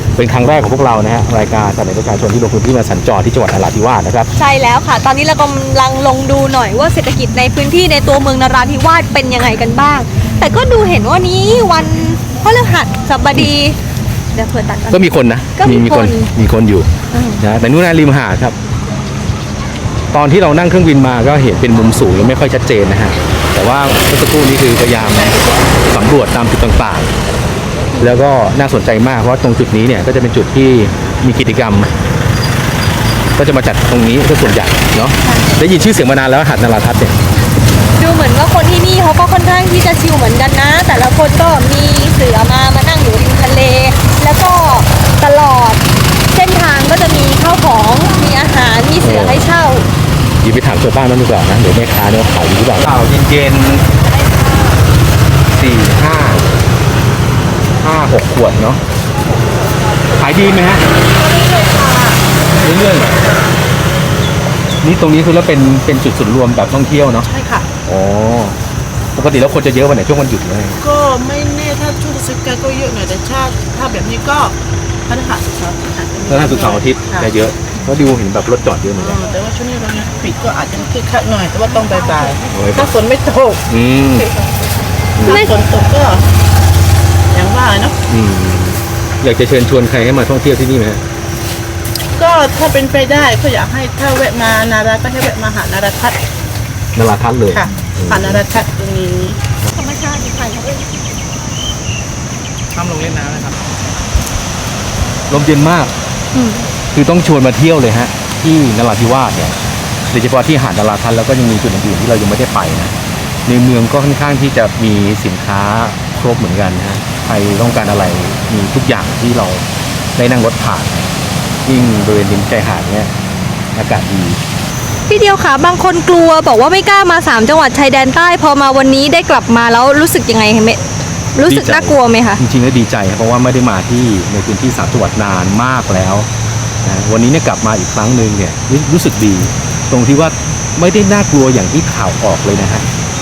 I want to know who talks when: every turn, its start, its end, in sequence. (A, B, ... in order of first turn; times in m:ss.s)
0:00.2-0:04.3 A
0:04.4-0:13.8 B
0:14.3-0:16.3 B
0:14.9-0:18.6 A
0:17.1-0:17.4 B
0:20.1-0:27.1 A
0:28.0-0:31.9 A
0:33.4-0:37.2 A
0:35.2-0:35.5 B
0:38.0-0:49.9 B
0:49.0-0:49.4 A
0:50.4-0:53.8 A
0:55.5-0:56.5 A
0:57.8-0:58.8 A
1:00.2-1:00.9 A
1:01.2-1:02.3 C
1:02.6-1:03.2 A
1:04.8-1:07.3 A
1:07.2-1:07.7 C
1:07.8-1:08.6 A
1:09.2-1:10.8 A
1:10.8-1:17.3 C
1:16.3-1:19.2 A
1:19.0-1:23.6 C
1:22.5-1:22.9 A
1:23.7-1:24.3 A
1:25.2-1:25.5 A
1:25.2-1:26.2 C
1:27.3-1:28.0 C
1:28.1-1:31.0 A
1:32.2-1:36.2 C
1:37.0-1:38.6 A
1:37.5-1:39.4 C
1:39.7-1:40.9 B
1:42.7-1:43.6 A
1:45.3-1:45.9 A
1:46.3-1:46.7 B
1:46.9-1:49.6 A
1:50.1-1:52.9 A
1:53.5-1:59.6 A
2:00.2-2:01.1 A
2:01.7-2:03.1 A
2:03.8-2:04.4 A
2:05.1-2:10.8 B
2:11.4-2:12.4 B
2:11.5-2:16.3 A
2:16.8-2:22.9 A